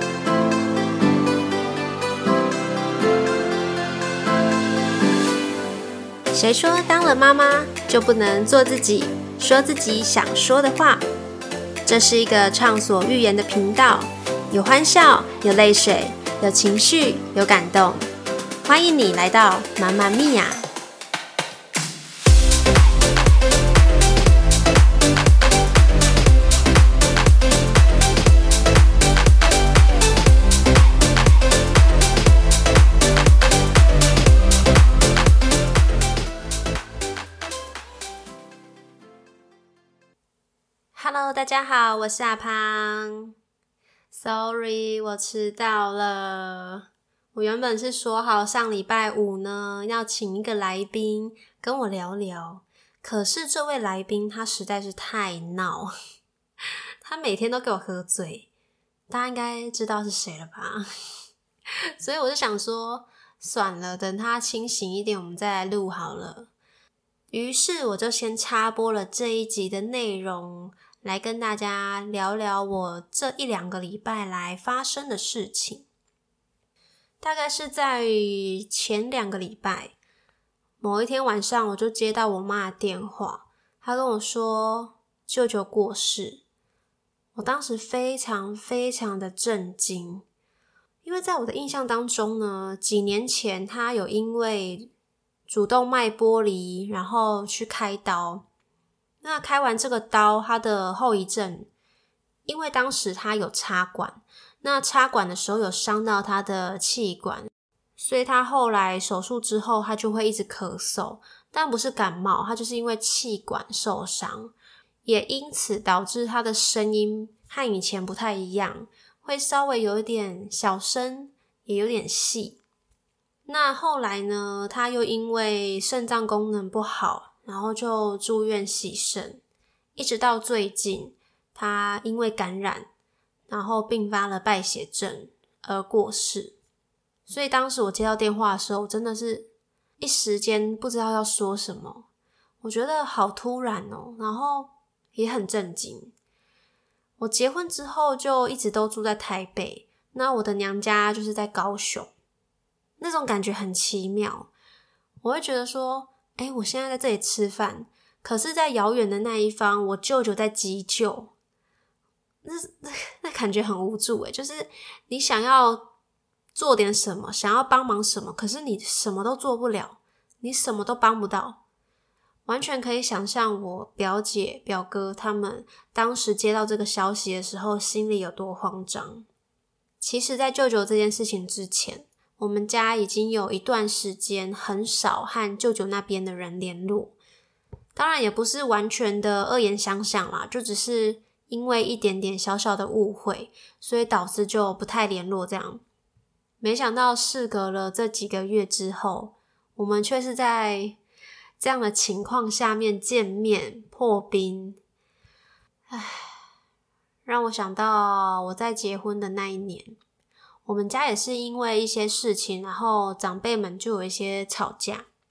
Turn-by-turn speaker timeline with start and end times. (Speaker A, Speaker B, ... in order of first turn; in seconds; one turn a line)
Speaker A: 6.3-11.0
Speaker A: 11.8-18.1
Speaker A: 18.6-20.7
Speaker A: 40.9-43.3
Speaker A: 44.1-55.9
Speaker A: 57.0-58.5
Speaker A: 59.1-60.9
Speaker A: 62.0-66.5
Speaker A: 67.3-75.9
Speaker A: 77.2-79.9
Speaker A: 80.8-86.4
Speaker A: 87.3-90.2
Speaker A: 91.0-94.9
Speaker A: 95.5-98.5
Speaker A: 99.2-101.7
Speaker A: 102.5-114.5
Speaker A: 115.0-122.6
Speaker A: 123.5-129.4
Speaker A: 129.9-132.9
Speaker A: 133.5-136.6
Speaker A: 137.3-142.1
Speaker A: 142.6-146.1
Speaker A: 147.2-152.1
Speaker A: 153.0-154.5
Speaker A: 155.2-161.3
Speaker A: 162.4-165.9
Speaker A: 166.5-171.6
Speaker A: 172.4-179.3
Speaker A: 180.0-187.2
Speaker A: 187.9-195.8
Speaker A: 196.6-201.0
Speaker A: 201.6-204.8
Speaker A: 205.9-206.4
Speaker A: 207.2-210.0
Speaker A: 210.6-215.1